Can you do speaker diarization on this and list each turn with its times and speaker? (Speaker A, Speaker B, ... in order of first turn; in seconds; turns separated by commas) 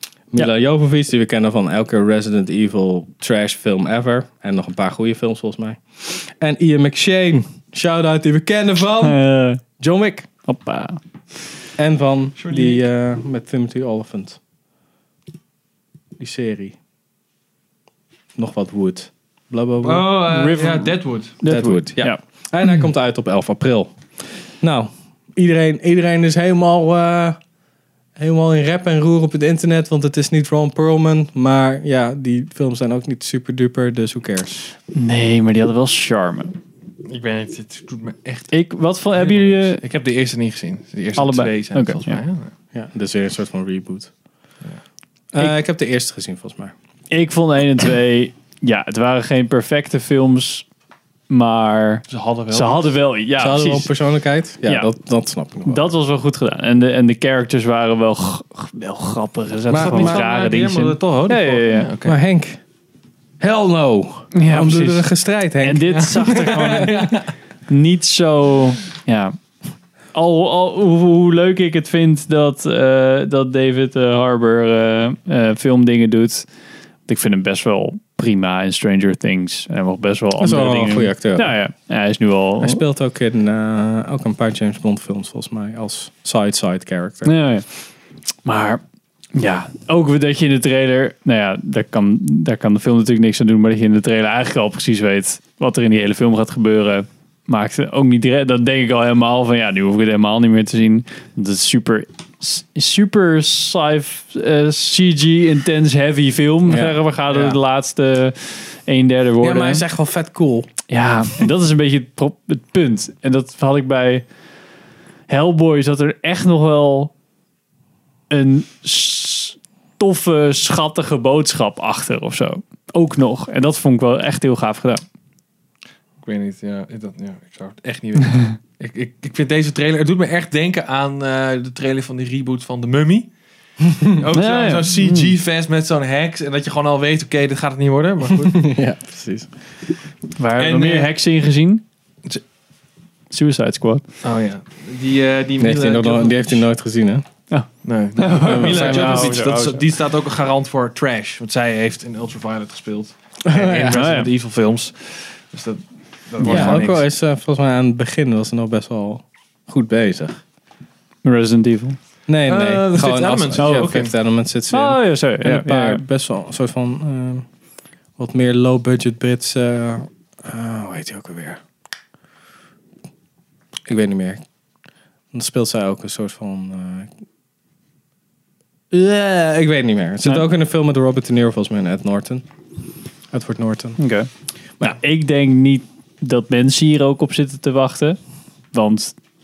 Speaker A: 0.3-10.3, Speaker B: 9.0-9.6, Speaker B: 10.5-11.0, Speaker A: 11.8-14.4, Speaker C: 12.4-12.8, Speaker A: 16.2-16.8, Speaker A: 18.4-20.2, Speaker C: 19.8-21.4, Speaker B: 20.3-22.2, Speaker A: 21.4-23.9, Speaker A: 24.6-27.4, Speaker A: 28.2-34.7, Speaker B: 34.9-36.6, Speaker C: 37.0-38.5, Speaker B: 38.5-39.8, Speaker C: 39.1-42.5, Speaker B: 41.2-42.2, Speaker A: 42.7-44.1, Speaker A: 45.3-46.7, Speaker B: 47.1-50.6, Speaker B: 51.3-53.9, Speaker C: 52.1-53.0, Speaker A: 53.4-55.8, Speaker B: 55.7-61.9, Speaker A: 59.7-60.2, Speaker C: 59.7-62.1, Speaker A: 62.0-62.6, Speaker A: 63.4-66.8, Speaker B: 64.3-67.0, Speaker C: 65.8-67.3, Speaker B: 67.7-69.4, Speaker B: 70.1-76.5, Speaker B: 77.1-82.8, Speaker A: 80.4-81.5, Speaker A: 82.6-87.3, Speaker B: 87.2-87.6, Speaker B: 88.4-88.8, Speaker B: 89.3-109.8, Speaker A: 106.7-107.6, Speaker A: 109.4-110.7, Speaker B: 110.9-114.2, Speaker B: 115.3-117.1, Speaker B: 118.3-125.0, Speaker C: 126.2-133.3, Speaker C: 134.1-138.6, Speaker B: 134.3-135.3, Speaker A: 138.4-139.5, Speaker B: 140.4-141.8, Speaker C: 140.6-141.1, Speaker B: 143.3-144.0, Speaker C: 144.2-146.6, Speaker A: 145.6-147.2, Speaker B: 147.5-149.8, Speaker C: 147.8-157.1, Speaker A: 148.4-149.4, Speaker A: 153.4-154.0, Speaker B: 153.9-154.3, Speaker A: 156.4-160.4, Speaker B: 161.2-162.0, Speaker A: 162.3-167.4, Speaker C: 162.4-164.1, Speaker B: 163.6-163.8, Speaker B: 164.7-166.1, Speaker A: 168.2-171.6, Speaker A: 173.9-174.4, Speaker A: 175.3-177.1, Speaker A: 178.9-182.4, Speaker A: 183.3-184.0, Speaker B: 184.0-184.3, Speaker B: 184.9-188.2, Speaker B: 188.7-189.1